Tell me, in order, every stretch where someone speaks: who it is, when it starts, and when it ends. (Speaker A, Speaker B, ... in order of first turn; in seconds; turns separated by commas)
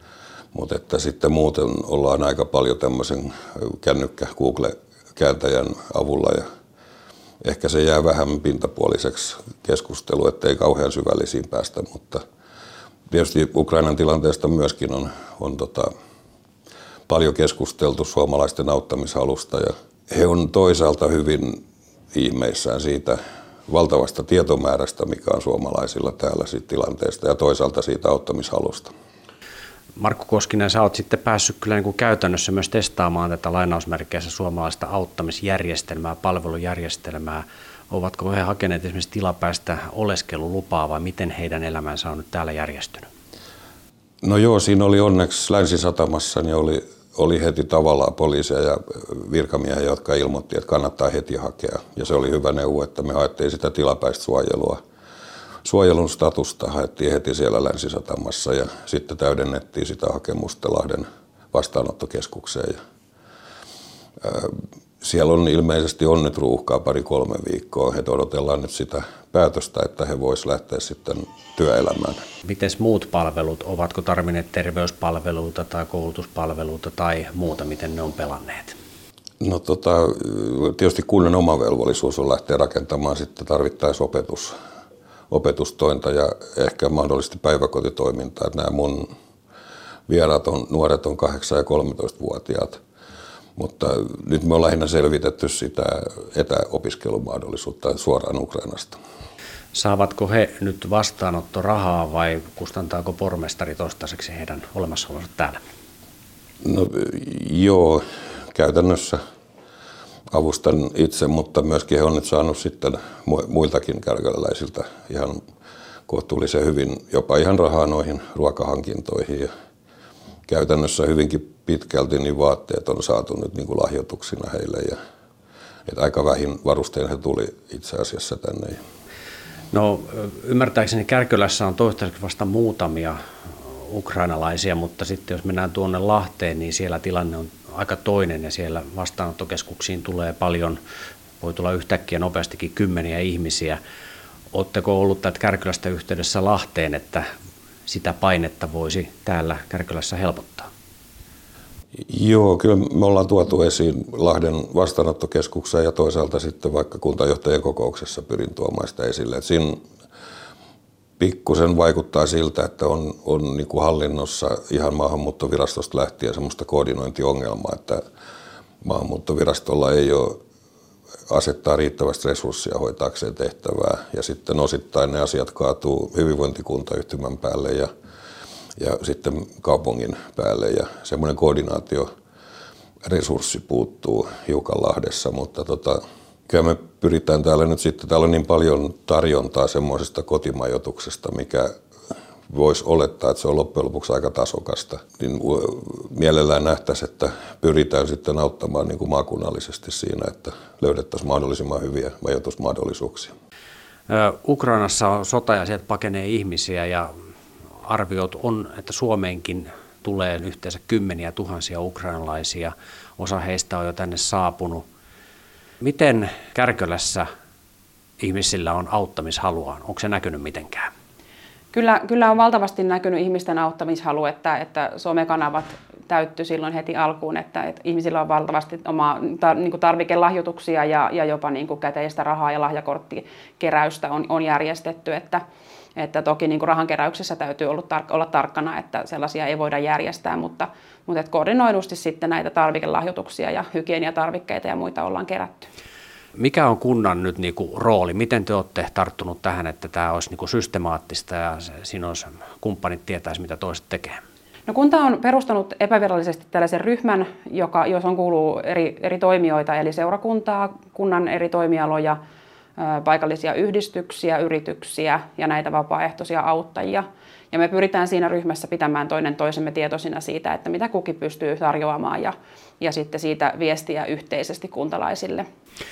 Speaker A: 0.5-6.5, Speaker A: 7.4-12.2, Speaker A: 13.1-15.9, Speaker A: 17.1-21.6, Speaker A: 22.1-28.9, Speaker B: 30.0-43.1, Speaker A: 44.2-54.8, Speaker A: 55.6-62.8, Speaker A: 64.2-72.2, Speaker B: 72.5-78.8, Speaker A: 79.4-84.5, Speaker A: 85.3-89.1, Speaker A: 90.1-92.8, Speaker A: 93.6-99.0, Speaker B: 99.7-105.6, Speaker A: 106.6-109.2, Speaker A: 110.3-115.4, Speaker A: 116.1-119.5, Speaker A: 120.5-125.0, Speaker A: 125.9-128.8, Speaker B: 129.7-133.2, Speaker B: 133.9-140.8, Speaker B: 141.4-143.8, Speaker B: 144.5-147.2, Speaker B: 147.9-150.7, Speaker A: 152.1-159.8, Speaker A: 161.2-168.0, Speaker A: 168.8-170.4, Speaker A: 171.3-177.9, Speaker A: 178.8-182.1, Speaker A: 183.0-191.7, Speaker A: 192.5-203.3, Speaker B: 204.1-207.1, Speaker B: 207.8-214.8, Speaker B: 215.8-217.3, Speaker B: 218.2-220.9, Speaker C: 221.7-235.4, Speaker C: 236.0-245.7, Speaker B: 246.4-254.2, Speaker C: 254.7-262.2, Speaker C: 262.8-275.5